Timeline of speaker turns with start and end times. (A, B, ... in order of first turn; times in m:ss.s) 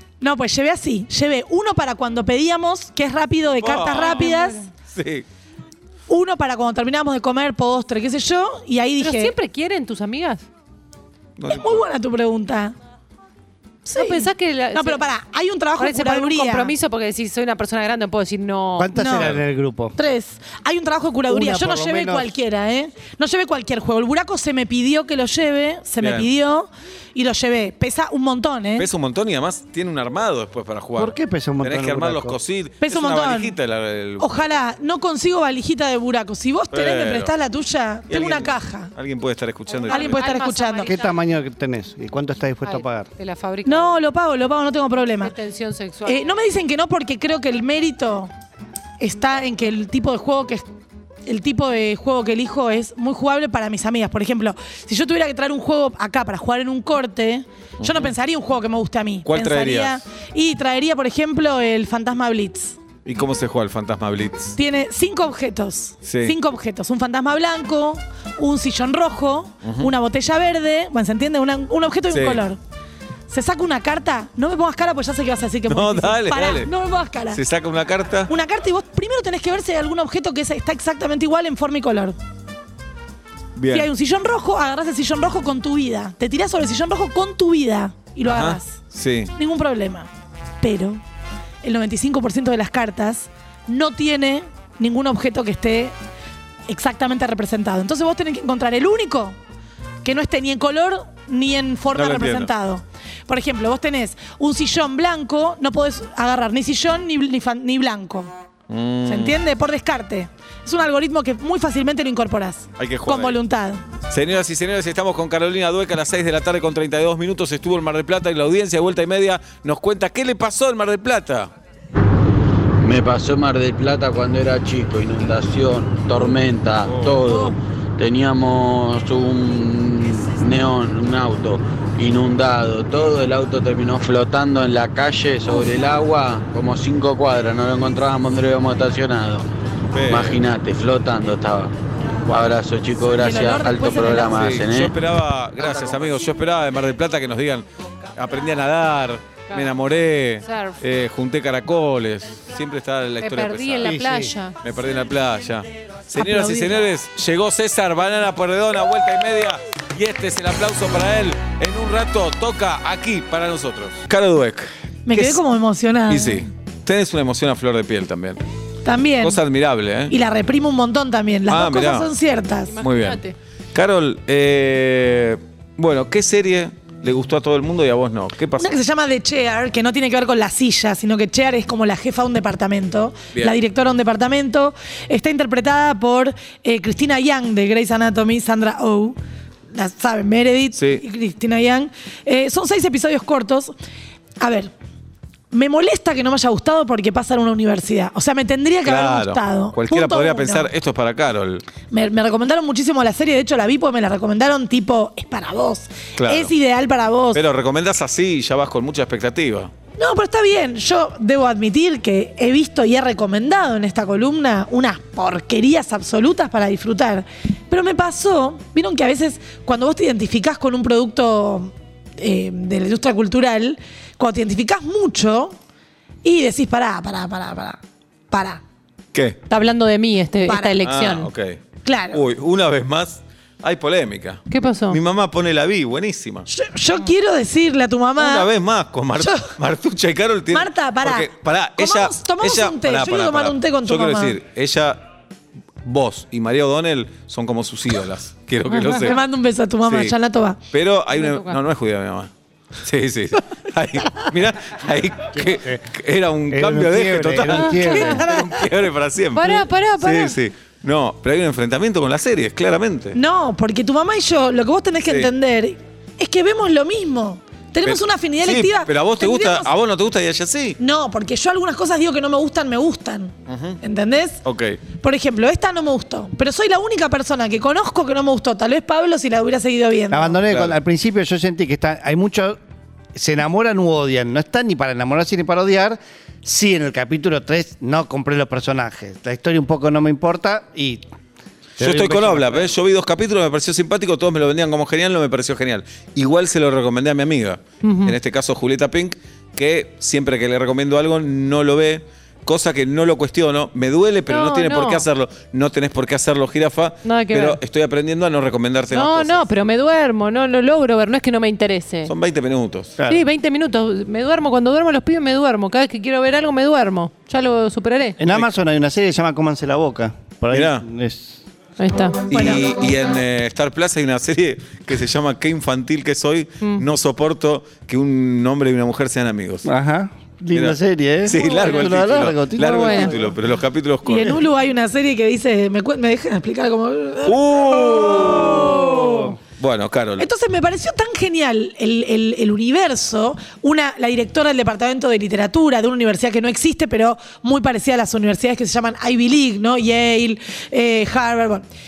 0:00.2-0:04.6 A
0:03.6-0:04.3 B
0:04.0-0:04.6 C
0:04.9-0:05.2 B
0:06.1-0:09.3 A
0:09.0-0:10.4 C
0:11.4-0:11.8 B
0:11.5-0:12.8 A
0:13.9-0:16.8 A
0:13.9-0:15.0 C
0:15.8-0:19.0 C
0:18.8-0:20.0 D
0:19.0-0:19.3 A
0:20.0-0:28.9 A
0:21.3-0:22.3 D
0:26.0-0:26.3 B
0:28.8-0:34.6 B
0:31.0-0:32.4 D
0:32.8-0:33.6 A
0:34.2-0:38.9 A
0:36.7-0:37.3 B
0:38.1-0:40.2 B
0:39.7-0:41.2 C
0:39.9-0:40.9 A
0:40.8-0:43.1 D
0:42.7-0:44.0 C
0:43.6-0:45.3 A
0:45.2-0:46.4 C
0:46.0-0:48.3 A
0:49.0-0:50.7 A
0:51.3-1:02.8 A
0:57.8-0:58.1 B
0:59.3-1:00.0 B
1:03.1-1:04.6 B
1:04.6-1:12.6 A
1:06.0-1:06.4 B
1:09.6-1:09.9 B
1:12.1-1:12.4 B
1:13.3-1:17.4 A
1:15.7-1:16.7 B
1:17.3-1:18.3 B
1:18.3-1:22.2 A
1:23.6-1:23.9 B
1:23.7-1:28.8 A
1:28.2-1:29.3 B
1:29.4-1:30.1 A
1:30.6-1:31.0 A
1:31.6-1:36.0 A
1:36.7-1:39.4 A
1:40.0-1:48.3 A
1:42.0-1:42.5 B
1:48.7-1:49.4 B
1:49.1-1:53.8 A
1:52.8-1:53.4 B
1:54.1-2:01.5 B
2:02.8-2:19.5 E
2:06.9-2:07.2 B
2:19.9-2:20.4 B
2:20.1-2:21.7 E
2:22.3-2:24.9 E
2:23.2-2:24.5 A
2:24.3-2:27.6 B
2:28.2-2:34.0 B
2:30.4-2:30.8 C
2:33.2-2:34.6 C
2:33.8-2:34.3 D
2:34.6-2:45.4 B
2:36.2-2:36.8 A
2:45.1-2:46.5 A
2:46.1-2:48.4 B
2:48.8-2:49.4 A
2:49.2-2:50.1 B
2:50.1-2:52.8 A
2:51.5-2:52.1 B
2:52.7-2:53.4 C
2:52.8-2:53.2 B
2:53.7-2:58.8 B
2:58.6-3:09.2 A
3:09.7-3:13.7 A
3:10.7-3:11.0 B
3:14.4-3:14.7 A
3:15.5-3:20.7 A
3:18.8-3:21.6 B
3:21.9-3:27.4 A
3:26.2-3:26.5 B
3:27.3-3:29.7 B
3:30.0-3:45.6 A
3:46.2-3:47.8 A
3:48.3-3:48.6 A
3:49.1-3:49.4 B
3:49.5-3:51.3 C
3:50.5-3:50.8 A
3:50.8-3:56.5 B
3:51.8-3:52.2 A
3:54.5-3:55.0 C
3:56.5-3:58.5 A
3:58.2-4:05.0 B
3:59.2-3:59.5 A
4:00.5-4:04.4 A
4:05.8-4:09.2 B
4:08.8-4:10.6 A
4:09.9-4:10.1 B
4:10.7-4:12.3 B
4:11.2-4:11.6 C
4:12.8-4:23.2 B
4:15.3-4:15.8 D
4:16.5-4:18.2 D
4:17.7-4:18.2 C
4:18.2-4:18.5 A
4:19.3-4:20.4 C
4:23.1-4:29.7 A
4:27.8-4:30.8 B
4:30.8-4:34.4 A
4:33.5-4:33.8 B
4:34.4-4:34.8 B
4:35.0-4:40.4 A
4:40.1-4:42.6 D
4:40.5-4:40.8 B
4:43.2-4:51.0 D
4:51.8-4:52.7 D
4:51.8-5:09.5 B
4:57.8-4:58.2 C
5:04.3-5:05.0 C
5:07.0-5:07.6 C
5:08.9-5:12.1 C
5:12.1-5:13.0 B
5:13.0-5:13.2 D
5:13.1-5:18.2 C
5:18.2-5:21.4 D
5:20.5-5:20.8 B
5:21.8-5:22.3 C
5:22.3-5:22.6 A
5:22.3-5:29.7 B
5:29.6-5:33.2 D
5:30.5-5:34.4 B
5:32.6-5:33.2 C
5:34.0-5:39.3 A
5:37.3-5:39.1 B
5:39.0-5:39.3 D
5:39.6-5:40.3 B
5:40.2-5:51.6 A